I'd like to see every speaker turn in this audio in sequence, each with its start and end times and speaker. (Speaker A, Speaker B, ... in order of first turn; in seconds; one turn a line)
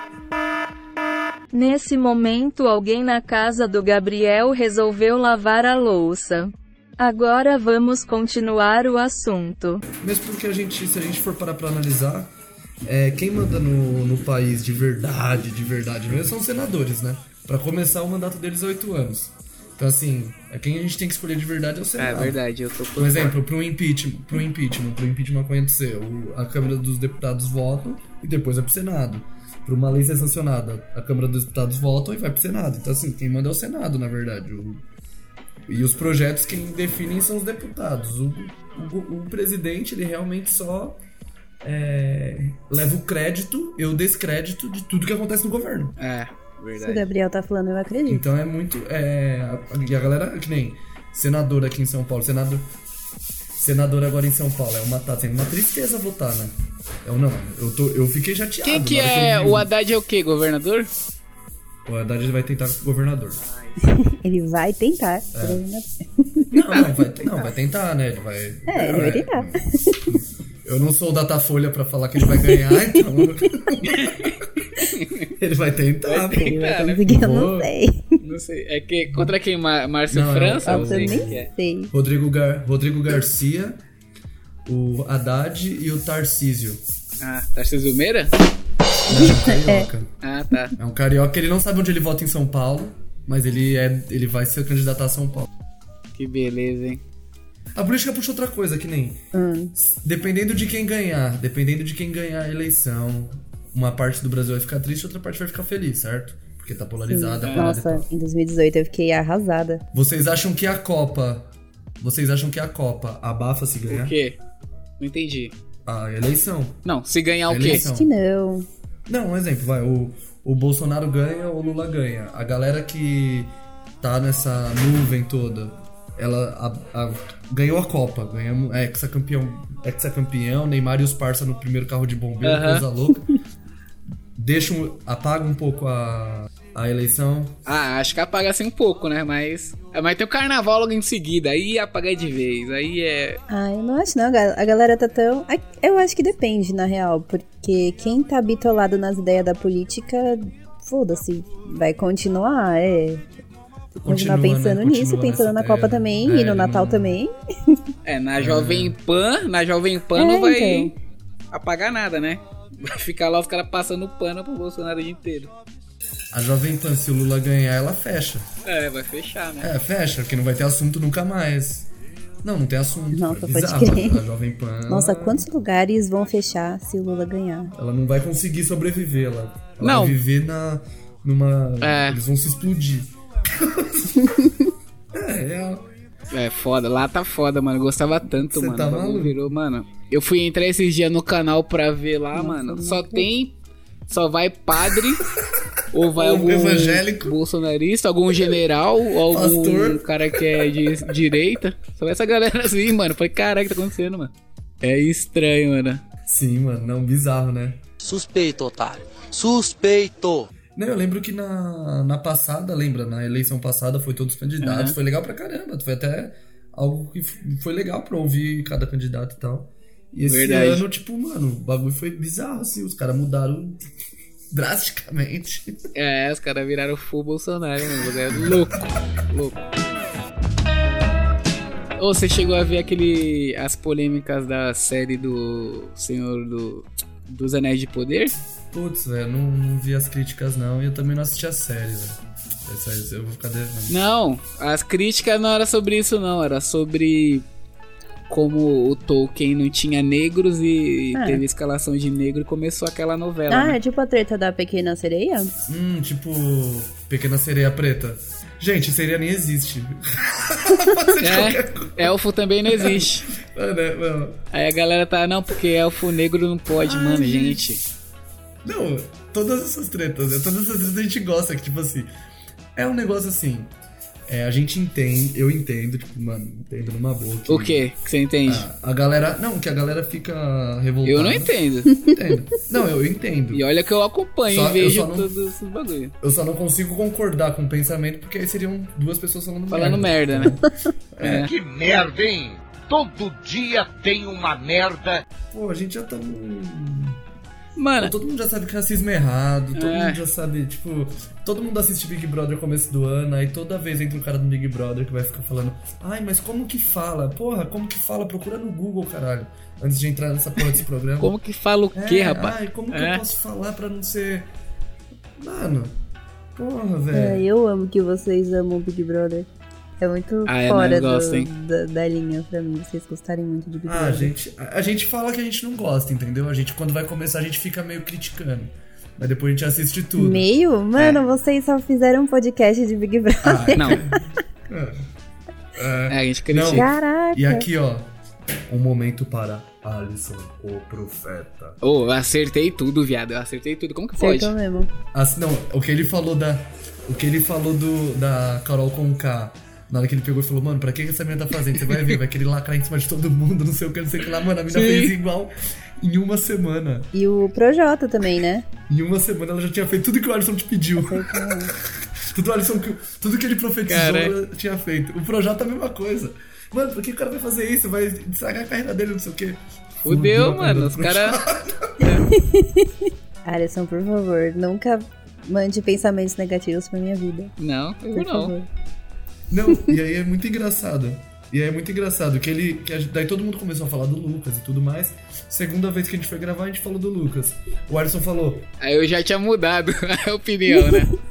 Speaker A: 1.5-9.8
Speaker B: 10.0-12.3
Speaker B: 12.8-22.4
Speaker C: 22.0-23.3
Speaker B: 22.9-34.8
Speaker B: 35.7-41.0
Speaker B: 41.6-46.0
Speaker C: 46.0-47.1
Speaker D: 46.8-48.2
Speaker B: 48.1-52.7
Speaker B: 53.6-59.7
Speaker C: 58.6-60.9
Speaker B: 61.8-63.4
Speaker C: 63.4-63.8
Speaker D: 63.8-67.5
Speaker B: 65.3-65.6
Speaker B: 66.5-74.5
Speaker D: 68.7-70.0
Speaker D: 72.2-73.3
Speaker C: 73.9-74.4
Speaker C: 74.9-75.3
Speaker B: 75.4-77.7
Speaker C: 76.0-77.0
Speaker D: 76.3-78.2
Speaker C: 78.2-81.5
Speaker B: 80.1-83.8
Speaker D: 80.6-81.9
Speaker B: 84.7-86.8
Speaker C: 87.2-88.3
Speaker B: 89.1-90.1
Speaker D: 89.1-89.9
Speaker C: 90.2-90.7
Speaker B: 90.8-95.5
Speaker C: 96.2-97.0
Speaker B: 97.7-99.2
Speaker D: 99.3-99.7
Speaker B: 99.8-108.0
Speaker D: 107.1-109.8
Speaker C: 107.4-107.7
Speaker B: 109.9-114.2
Speaker C: 113.9-114.4
Speaker C: 115.0-115.5
Speaker B: 115.8-116.8
Speaker C: 116.8-117.8
Speaker B: 117.5-118.1
Speaker D: 117.7-118.7
Speaker B: 119.1-133.3
Speaker C: 132.4-132.8
Speaker B: 134.3-137.5
Speaker C: 137.7-143.4
Speaker D: 143.5-153.3
Speaker B: 154.0-157.2
Speaker D: 154.0-157.8
Speaker C: 158.0-160.9
Speaker B: 158.4-159.0
Speaker D: 160.2-160.9
Speaker C: 161.5-165.5
Speaker B: 166.3-168.5
Speaker C: 168.6-169.7
Speaker B: 169.6-171.9
Speaker B: 172.4-175.4
Speaker D: 173.1-174.2
Speaker D: 174.9-177.7
Speaker B: 177.7-184.3
Speaker C: 179.8-180.2
Speaker C: 181.8-182.2
Speaker D: 184.2-184.5
Speaker B: 185.1-185.8
Speaker C: 186.3-193.5
Speaker B: 188.3-189.4
Speaker D: 192.3-193.2
Speaker C: 194.1-195.2
Speaker C: 195.9-206.0
Speaker B: 196.1-197.3
Speaker B: 199.3-200.2
Speaker B: 206.3-207.8
Speaker E: 208.0-210.5
Speaker B: 210.8-223.8
Speaker C: 214.6-214.9
Speaker C: 220.2-220.8
Speaker B: 224.5-225.8
Speaker C: 225.9-229.6
Speaker C: 232.0-238.3
Speaker B: 238.7-243.9
Speaker C: 243.9-247.4
Speaker C: 248.3-253.8
Speaker D: 251.1-251.4
Speaker D: 253.5-255.5
Speaker B: 255.7-262.1
Speaker C: 261.2-263.3
Speaker B: 262.7-264.4
Speaker C: 264.5-267.8
Speaker B: 266.8-267.6
Speaker B: 268.6-272.1
Speaker B: 272.8-273.7
Speaker B: 274.3-277.8
Speaker C: 277.5-278.6
Speaker B: 278.4-283.6
Speaker C: 281.0-282.0
Speaker C: 283.5-286.1
Speaker B: 284.4-285.3
Speaker B: 286.2-291.5
Speaker C: 289.7-290.6
Speaker C: 291.2-291.5
Speaker F: 291.4-295.2
Speaker B: 295.5-297.2
Speaker C: 297.8-298.1
Speaker B: 298.0-311.3
Speaker C: 299.7-300.2
Speaker C: 311.2-313.2
Speaker B: 311.9-314.5
Speaker B: 315.4-315.9
Speaker B: 316.6-317.4
Speaker D: 317.1-319.5
Speaker D: 320.0-324.3
Speaker C: 320.4-321.5
Speaker B: 323.8-330.5
Speaker D: 330.2-334.0
Speaker C: 330.9-331.2
Speaker B: 333.4-335.0
Speaker C: 333.7-334.0
Speaker B: 335.7-338.1
Speaker C: 336.1-336.9
Speaker D: 336.7-337.7
Speaker B: 338.7-341.8
Speaker C: 341.8-344.5
Speaker D: 344.2-344.9
Speaker B: 345.1-357.1
Speaker C: 354.7-355.1
Speaker D: 357.1-358.6
Speaker B: 358.9-361.7
Speaker D: 361.0-361.7
Speaker B: 362.3-372.0
Speaker C: 363.9-364.3
Speaker C: 370.0-371.4
Speaker D: 372.3-372.9
Speaker D: 373.4-377.5
Speaker C: 377.6-378.5
Speaker D: 378.1-378.7
Speaker B: 379.5-388.7
Speaker C: 388.8-391.1